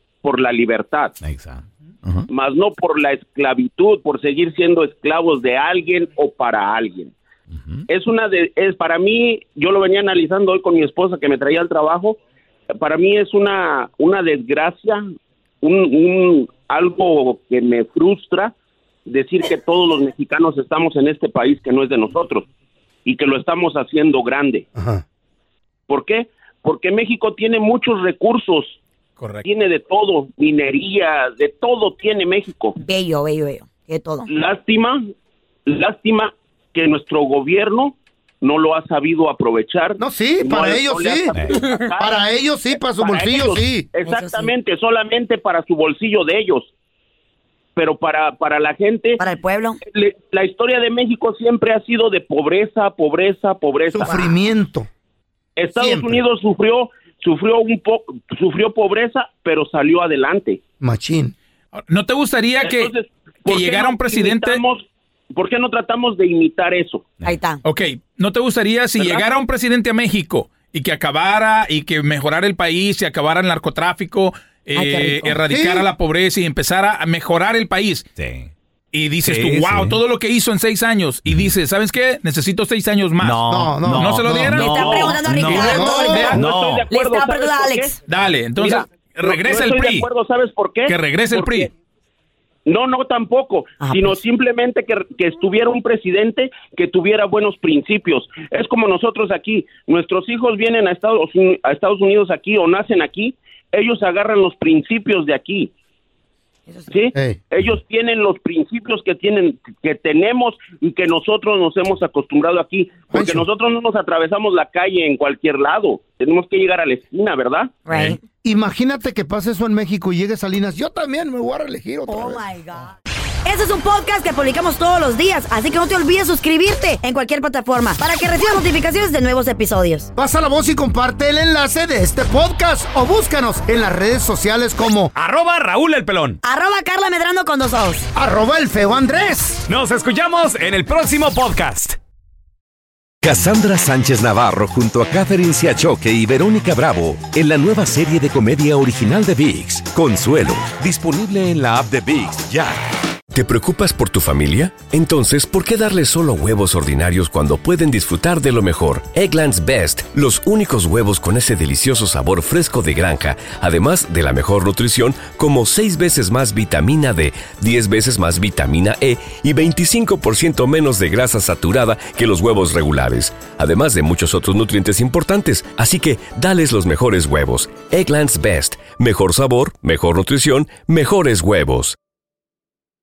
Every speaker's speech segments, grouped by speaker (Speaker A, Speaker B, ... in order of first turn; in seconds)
Speaker A: 0.2-1.1, 2.3-7.1, 7.9-12.2, 12.8-15.0, 15.6-18.5, 19.1-22.4, 23.0-24.6, 25.9-28.8, 29.4-32.8, 34.3-35.1, 35.6-42.1, 43.0-46.7, 47.8-49.2, 49.9-54.1, 55.6-60.6, 62.6-67.1, 69.0-69.2, 86.3-87.9, 88.6-91.7, 92.7-105.7, 106.9-117.8
Speaker B: 1.2-2.2, 7.5-7.8, 78.2-78.5, 79.2-80.0, 81.2-81.5, 83.2-86.9, 89.3-90.0, 117.9-118.2, 135.1-136.4, 139.7-141.9
Speaker C: 24.7-25.0, 40.0-41.4, 42.0-43.9, 53.9-54.9, 55.7-56.2, 60.8-61.3, 75.5-75.9, 83.5-84.7, 85.4-86.4, 107.1-107.4, 113.1-113.5, 118.4-122.4, 130.2-135.1, 138.1-139.7
Speaker D: 29.2-29.4, 61.8-64.6, 67.6-78.1, 78.9-86.5, 88.0-90.0, 90.8-91.7
Speaker E: 32.8-34.3, 44.0-44.5, 49.2-49.8, 54.0-54.4, 67.2-67.6, 74.7-75.4, 84.6-86.3, 86.9-88.0, 93.8-94.1, 117.8-118.2, 122.1-130.1, 136.4-138.1
Speaker F: 143.2-152.8
Speaker G: 153.3-181.9